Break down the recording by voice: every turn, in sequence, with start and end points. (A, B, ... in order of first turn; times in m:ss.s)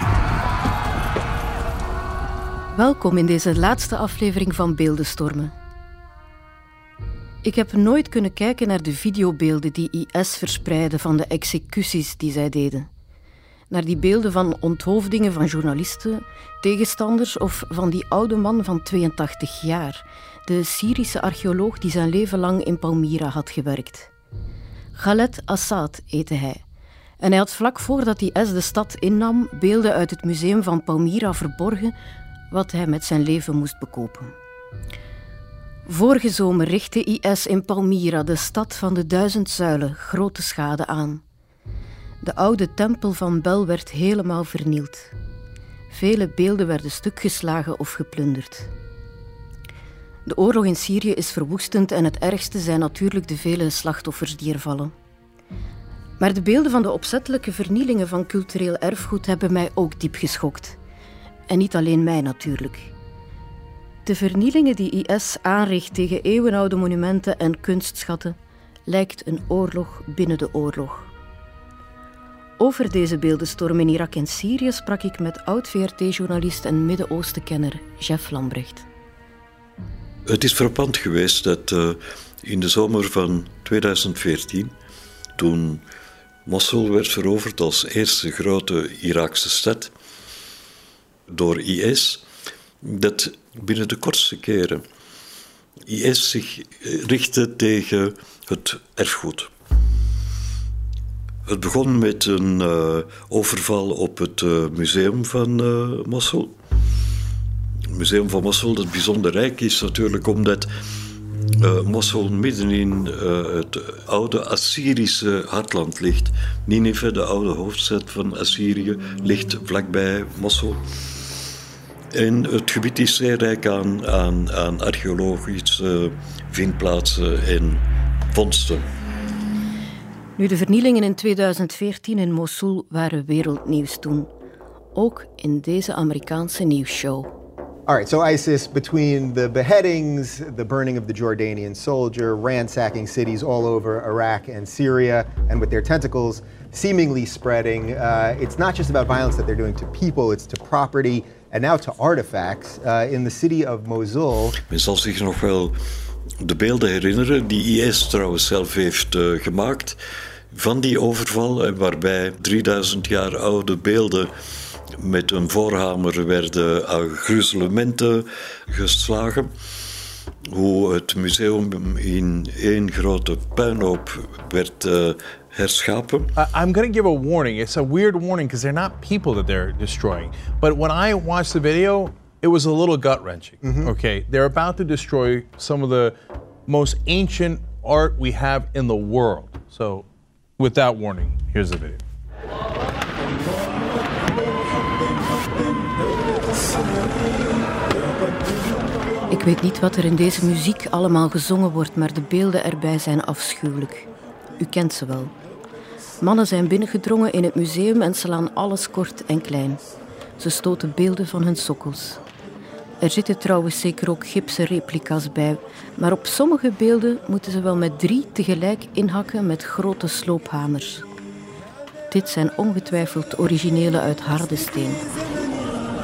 0:02.7-0:05.5 A
0:07.4-0:12.9 A
0:13.7-0:24.1 A
0:24.9-0:26.6 A
0:27.2-0:31.9 A
0:32.5-0:34.3 A
0:35.8-0:41.2 A
0:42.2-0:45.1 A
0:45.9-0:48.7 A
0:50.2-0:54.9 A
0:56.2-1:00.8 A
1:01.5-1:02.9 A
1:04.0-1:11.1 A
1:12.6-1:18.8 A
1:20.2-1:24.7 B
1:25.4-1:25.8 B
1:26.4-1:29.9 B
1:31.3-1:32.2 B
1:32.8-1:34.8 B
1:35.8-1:39.5 B
1:41.4-1:46.5 B
1:47.9-1:50.7 B
1:51.6-2:00.8 B
2:02.1-2:08.9 B
2:10.4-2:14.3 A
2:14.9-2:17.3 A
2:17.9-2:34.6 C
2:34.7-2:35.8 B
2:36.4-2:40.0 B
2:40.5-2:44.3 B
2:44.9-2:49.5 B
2:50.5-2:56.3 B
2:56.4-3:10.1 D
3:03.6-3:03.9 C
3:10.6-3:12.0 D
3:19.3-3:24.1 A
3:24.6-3:25.3 A
3:26.2-3:29.8 A
3:30.4-3:32.2 A
3:33.0-3:41.0 A
3:42.1-3:45.0 A